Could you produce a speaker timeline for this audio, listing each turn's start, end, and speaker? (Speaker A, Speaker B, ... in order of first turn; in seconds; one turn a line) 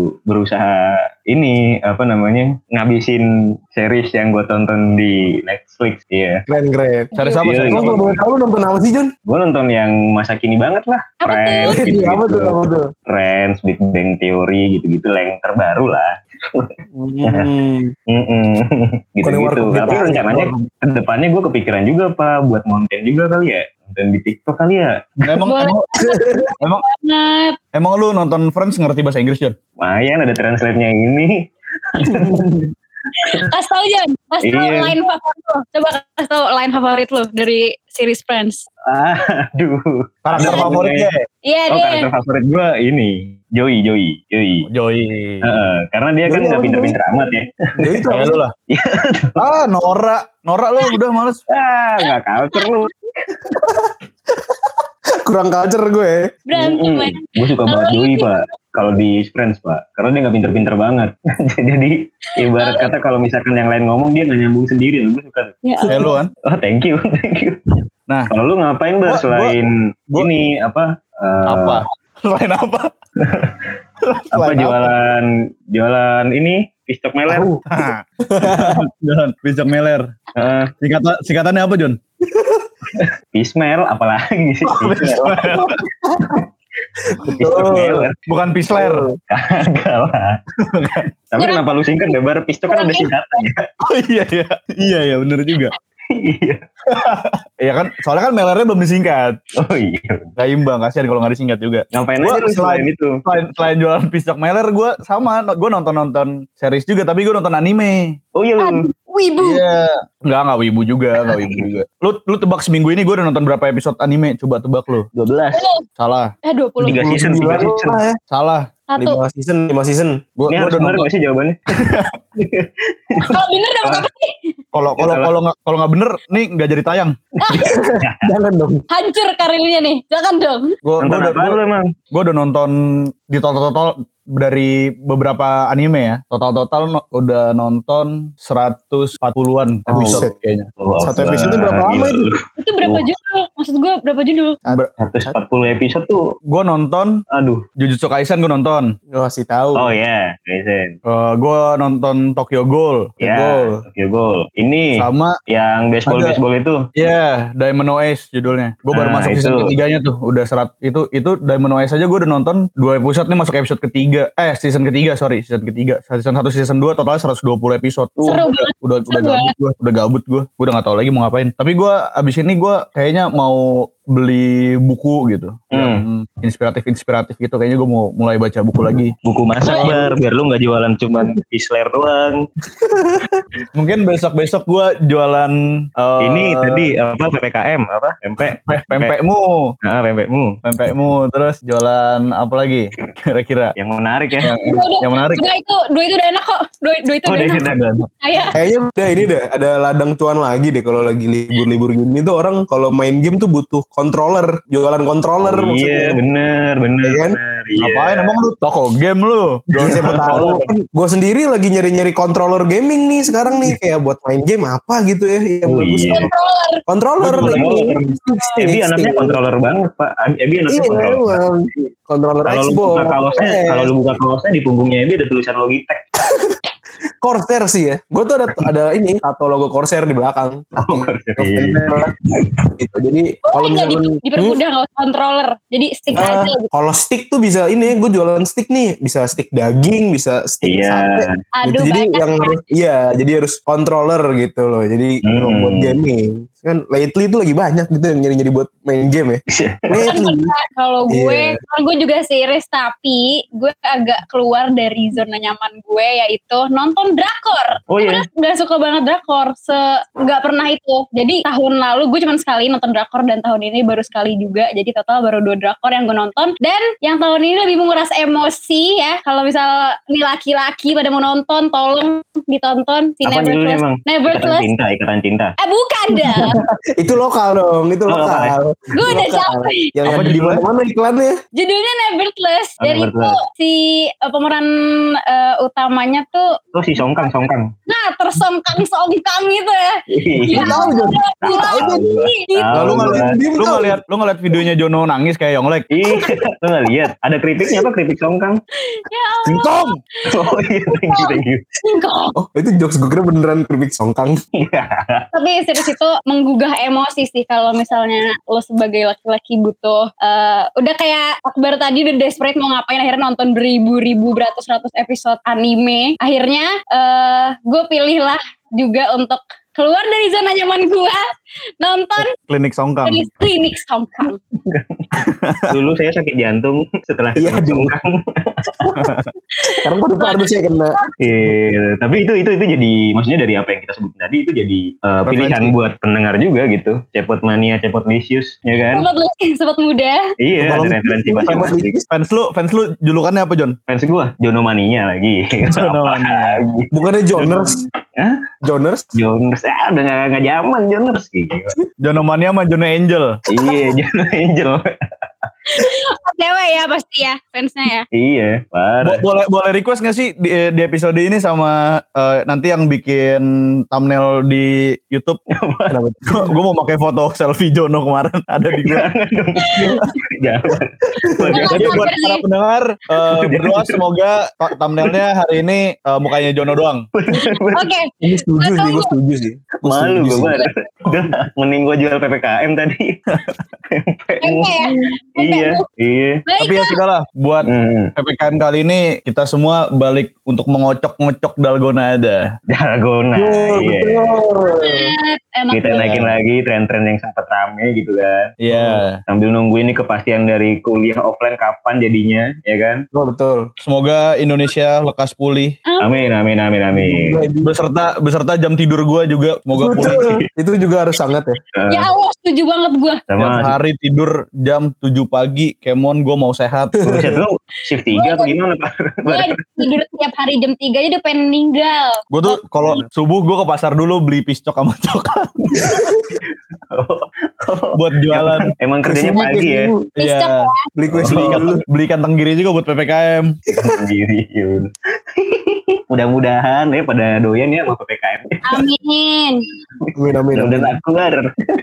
Speaker A: 0.3-6.4
Speaker B: 6.5-7.1
Speaker C: 7.1-7.5
Speaker D: 7.2-8.0
Speaker A: 7.4-8.2
Speaker B: 7.7-9.1
Speaker A: 9.3-16.7
Speaker C: 11.2-11.8
Speaker B: 11.7-12.9
Speaker B: 16.9-17.9
Speaker A: 18.1-24.9
Speaker B: 19.2-20.6
Speaker D: 25.2-25.9
Speaker C: 25.4-27.6
Speaker B: 25.9-26.4
Speaker D: 27.7-29.6
Speaker A: 29.8-32.7
Speaker B: 32.0-32.5
Speaker C: 33.2-38.6
Speaker A: 34.4-35.0
Speaker A: 38.9-41.1
Speaker D: 40.2-41.2
Speaker C: 41.5-42.1
Speaker A: 41.7-44.6
Speaker D: 44.7-45.5
Speaker A: 45.4-48.2
Speaker B: 46.3-47.0
Speaker B: 47.8-48.4
Speaker D: 48.1-48.5
Speaker A: 48.7-49.3
Speaker D: 49.4-51.4
Speaker A: 51.5-53.6
Speaker C: 52.0-52.8
Speaker B: 55.2-56.3
Speaker C: 56.5-58.4
Speaker A: 56.5-65.6
Speaker C: 62.4-62.9
Speaker C: 65.6-66.1
Speaker D: 65.8-66.3
Speaker A: 66.5-67.7
Speaker A: 68.3-71.8
Speaker D: 69.1-69.5
Speaker D: 71.5-72.9
Speaker A: 73.2-73.7
Speaker D: 74.0-74.9
Speaker A: 74.3-77.5
Speaker B: 77.3-77.6
Speaker D: 77.7-80.1
Speaker B: 78.2-78.8
Speaker A: 80.3-80.7
Speaker D: 80.8-82.0
Speaker A: 83.3-85.6
Speaker D: 84.7-85.8
Speaker B: 86.1-86.4
Speaker A: 87.2-88.2
Speaker B: 87.2-88.1
Speaker D: 88.3-89.1
Speaker B: 88.7-89.2
Speaker A: 89.3-90.4
Speaker D: 90.6-91.1
Speaker A: 91.3-93.7
Speaker C: 92.7-93.1
Speaker D: 93.8-95.7
Speaker A: 96.1-96.6
Speaker D: 96.9-99.4
Speaker A: 99.6-100.3
Speaker D: 100.4-108.2
Speaker A: 101.9-103.2
Speaker A: 108.3-108.8
Speaker C: 108.6-109.6
Speaker D: 109.4-115.1
Speaker A: 111.3-111.7
Speaker A: 115.1-115.6
Speaker C: 115.5-115.8
Speaker D: 116.0-116.3
Speaker C: 116.5-117.0
Speaker A: 116.8-118.0
Speaker B: 116.9-118.2
Speaker D: 118.3-118.7
Speaker C: 118.9-119.2
Speaker B: 119.0-120.2
Speaker D: 120.4-121.1
Speaker A: 120.5-124.0
Speaker D: 121.7-122.1
Speaker C: 123.3-124.3
Speaker D: 124.7-127.2
Speaker A: 125.0-125.3
Speaker C: 127.4-127.8
Speaker A: 127.5-128.3
Speaker B: 127.6-128.8
Speaker C: 128.9-130.7
Speaker D: 130.8-131.6
Speaker A: 131.0-131.9
Speaker D: 132.1-141.8
Speaker B: 139.9-140.3
Speaker A: 139.9-140.2
Speaker A: 140.8-143.0
Speaker B: 141.0-142.3
Speaker C: 142.6-144.6
Speaker A: 145.0-146.2
Speaker D: 146.5-147.2
Speaker A: 147.3-147.6
Speaker D: 147.8-148.9
Speaker B: 149.1-149.9
Speaker A: 149.8-150.9
Speaker D: 151.1-153.2
Speaker B: 153.2-153.8
Speaker A: 153.2-155.0
Speaker D: 155.0-155.3
Speaker A: 155.5-156.8
Speaker D: 156.1-156.4
Speaker D: 156.9-179.1
Speaker A: 158.9-159.7
Speaker C: 168.2-169.5
Speaker A: 175.7-176.0
Speaker A: 179.2-182.4
Speaker D: 179.7-180.1
Speaker B: 182.9-183.2
Speaker D: 183.7-186.9
Speaker A: 186.2-189.1
Speaker D: 188.4-189.7
Speaker A: 189.8-190.6
Speaker D: 190.6-193.7
Speaker A: 193.8-194.5
Speaker D: 194.4-195.4
Speaker C: 194.6-198.6
Speaker A: 197.2-198.0
Speaker D: 197.7-198.0
Speaker B: 198.5-206.2
Speaker A: 205.4-208.4
Speaker B: 207.0-207.4
Speaker D: 207.8-210.7
Speaker B: 209.8-216.3
Speaker A: 210.0-210.4
Speaker A: 215.7-216.3
Speaker C: 216.1-216.8
Speaker B: 216.9-219.4
Speaker A: 217.2-221.4
Speaker D: 217.2-217.7
Speaker B: 220.7-224.1
Speaker A: 222.4-226.1
Speaker B: 227.2-232.1
Speaker A: 230.8-232.1
Speaker B: 232.8-234.6
Speaker C: 233.5-236.7
Speaker B: 236.1-250.5
Speaker A: 240.6-241.3
Speaker C: 241.6-242.5
Speaker A: 245.2-246.0
Speaker A: 249.5-250.0
Speaker C: 250.0-274.7
Speaker B: 251.1-251.6
Speaker A: 257.9-258.2
Speaker A: 273.2-275.5
Speaker C: 275.6-276.6
Speaker B: 276.2-281.4
Speaker A: 278.1-278.6
Speaker C: 278.9-279.9
Speaker D: 280.0-280.6
Speaker C: 281.6-286.5
Speaker A: 282.8-283.4
Speaker A: 286.7-287.7
Speaker C: 287.9-289.9
Speaker A: 290.1-293.3
Speaker C: 290.5-292.7
Speaker B: 290.5-292.2
Speaker D: 292.7-295.9
Speaker B: 292.8-294.0
Speaker A: 295.9-298.6
Speaker C: 298.9-300.5
Speaker D: 299.5-299.9
Speaker A: 300.3-301.6
Speaker C: 301.1-302.3
Speaker B: 302.4-304.4
Speaker A: 304.6-305.2
Speaker C: 305.3-321.2
Speaker C: 321.8-322.3
Speaker D: 322.4-323.3
Speaker C: 323.0-324.4
Speaker A: 324.6-325.1
Speaker D: 325.2-325.7
Speaker A: 325.7-329.1
Speaker B: 327.4-327.9
Speaker B: 328.8-329.1
Speaker C: 329.6-330.5
Speaker B: 329.7-330.9
Speaker A: 331.2-339.1
Speaker D: 335.2-335.7
Speaker C: 338.8-340.2
Speaker A: 340.4-342.0
Speaker D: 340.6-341.0
Speaker B: 341.3-342.0
Speaker D: 342.1-343.8
Speaker A: 343.9-346.9
Speaker D: 345.6-346.6
Speaker B: 346.9-347.8
Speaker A: 348.2-348.4
Speaker B: 348.6-349.0
Speaker A: 349.1-351.8
Speaker D: 352.0-353.4
Speaker A: 353.5-354.9
Speaker C: 355.7-358.1
Speaker A: 358.1-359.2
Speaker D: 359.0-365.4
Speaker A: 365.6-365.9
Speaker B: 365.9-366.5
Speaker D: 366.3-369.1
Speaker A: 368.8-372.1
Speaker C: 369.6-370.0
Speaker B: 371.3-371.7
Speaker C: 371.5-372.4
Speaker D: 371.7-377.0
Speaker A: 373.2-374.0
Speaker A: 377.1-377.9
Speaker C: 377.3-379.1
Speaker B: 378.2-380.6
Speaker A: 379.8-383.1
Speaker C: 380.5-380.9
Speaker D: 383.3-383.6
Speaker A: 383.9-384.8
Speaker C: 384.4-385.8
Speaker A: 385.4-386.4
Speaker C: 386.4-387.0
Speaker D: 386.6-392.4
Speaker A: 387.6-388.1
Speaker A: 392.7-394.3
Speaker B: 393.4-395.1
Speaker C: 394.6-396.1
Speaker A: 395.7-398.5
Speaker D: 395.9-396.3
Speaker D: 398.6-399.2
Speaker A: 399.3-403.0
Speaker B: 403.1-403.7
Speaker D: 403.8-405.8
Speaker C: 405.9-406.2
Speaker A: 406.0-407.4
Speaker B: 406.9-407.7
Speaker D: 407.6-410.3
Speaker B: 409.8-411.6
Speaker A: 410.0-410.4
Speaker A: 411.7-412.1
Speaker C: 411.9-413.2
Speaker A: 413.3-413.8
Speaker D: 413.4-417.0
Speaker B: 417.0-417.3
Speaker A: 417.0-419.8
Speaker C: 418.1-418.6
Speaker C: 419.2-422.6
Speaker D: 422.3-425.9
Speaker A: 425.7-426.0
Speaker B: 425.8-426.3
Speaker A: 426.9-429.9
Speaker D: 427.9-428.7
Speaker B: 429.0-430.1
Speaker D: 430.2-430.7
Speaker C: 430.2-430.9
Speaker B: 430.9-431.8
Speaker A: 431.1-431.7
Speaker D: 431.2-433.6
Speaker A: 433.7-438.8
Speaker C: 438.7-439.6
Speaker A: 440.1-441.5
Speaker B: 440.1-441.0